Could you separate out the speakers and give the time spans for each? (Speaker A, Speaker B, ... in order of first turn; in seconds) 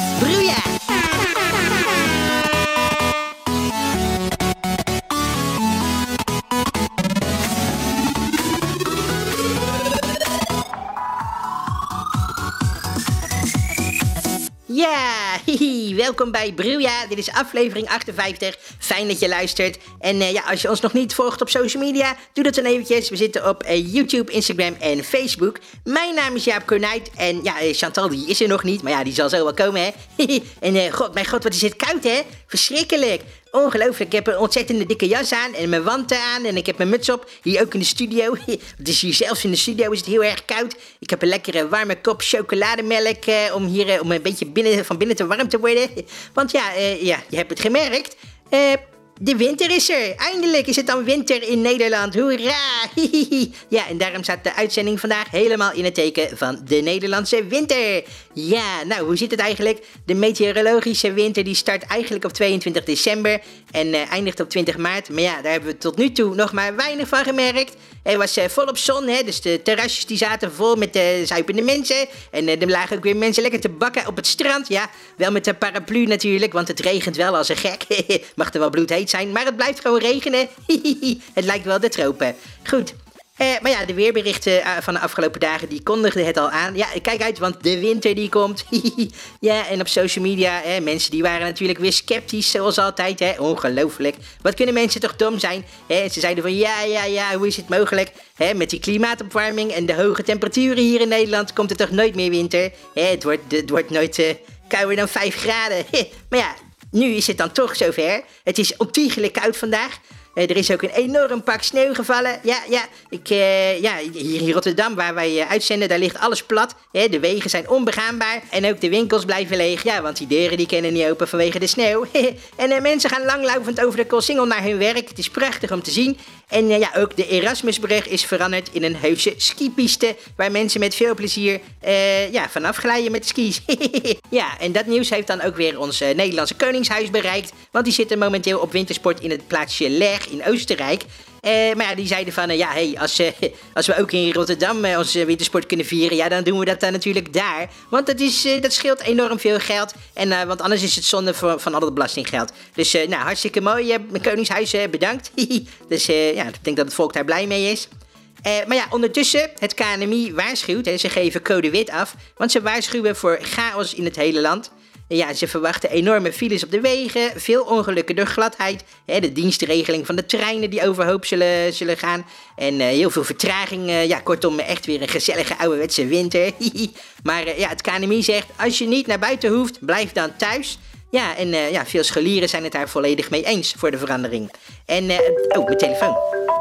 Speaker A: 0.2-0.8, 14.7-157.9, 158.4-186.2